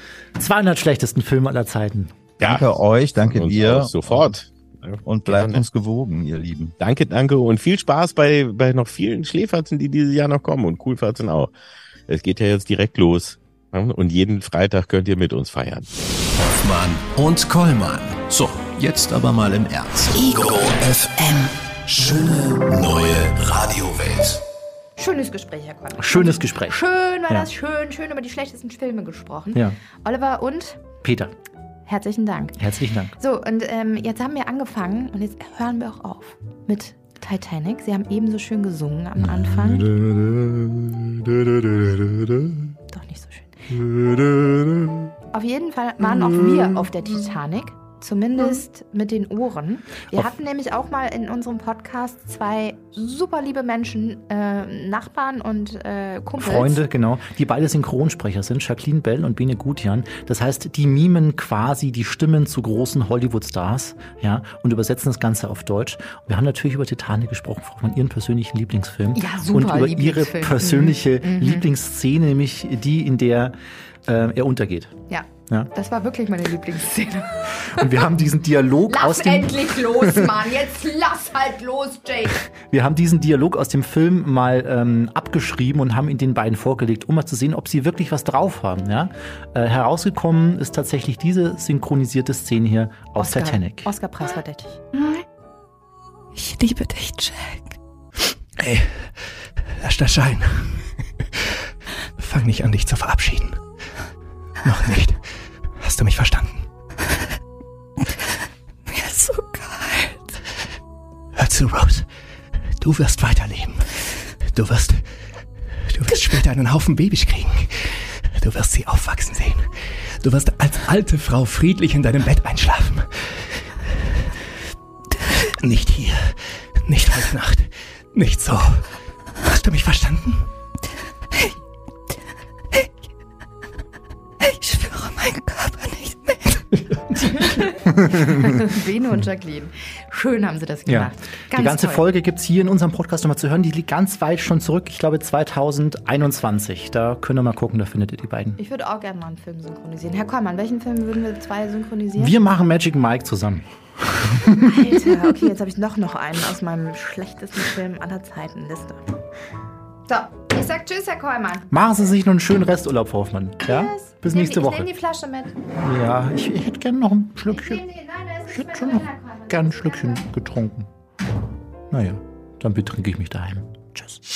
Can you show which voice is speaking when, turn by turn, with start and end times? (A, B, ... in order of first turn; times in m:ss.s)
0:00.4-0:02.1 A
0:02.4-0:04.3 B
0:02.4-0:05.6 C
0:05.0-0:06.7 B
0:06.8-0:11.5 C
0:12.1-0:15.8 C
0:16.4-0:24.4 D
0:25.0-0:30.8 E
0:26.0-0:27.5 A
0:31.0-0:31.3 A
0:31.9-0:32.6 E
0:32.6-0:33.2 A
0:33.2-0:39.9 E
0:39.4-0:42.6 A
0:42.9-0:43.6 E
0:43.8-0:45.0 A
0:45.3-0:56.8 E
0:56.4-1:13.5 A
1:09.1-1:11.7 E
1:14.0-1:14.9 A
1:15.1-1:18.1 E
1:17.6-1:20.3 A
1:18.9-1:22.4 E
1:22.7-1:33.9 A
1:33.2-1:34.9 E
1:36.3-1:37.8 F
1:38.6-1:40.8 G
1:42.2-1:43.6 G
1:44.6-1:45.2 G
1:45.8-1:46.7 G
1:48.8-1:50.3 F
1:51.3-1:52.1 G
1:52.8-1:55.1 G
1:55.9-2:04.3 G
2:05.6-2:08.9 G
2:09.4-2:10.5 G
2:14.4-2:16.6 F
2:17.3-2:22.0 E
2:17.8-2:18.5 A
2:20.8-2:28.6 A
2:28.6-2:32.3 E
2:32.2-2:35.0 A
2:34.5-2:39.0 E
2:40.1-2:41.7 E
2:41.7-2:44.9 A
2:43.6-2:45.5 E
2:45.7-2:47.8 A
2:47.5-2:50.2 E
2:48.5-2:50.9 A
2:51.9-2:54.2 A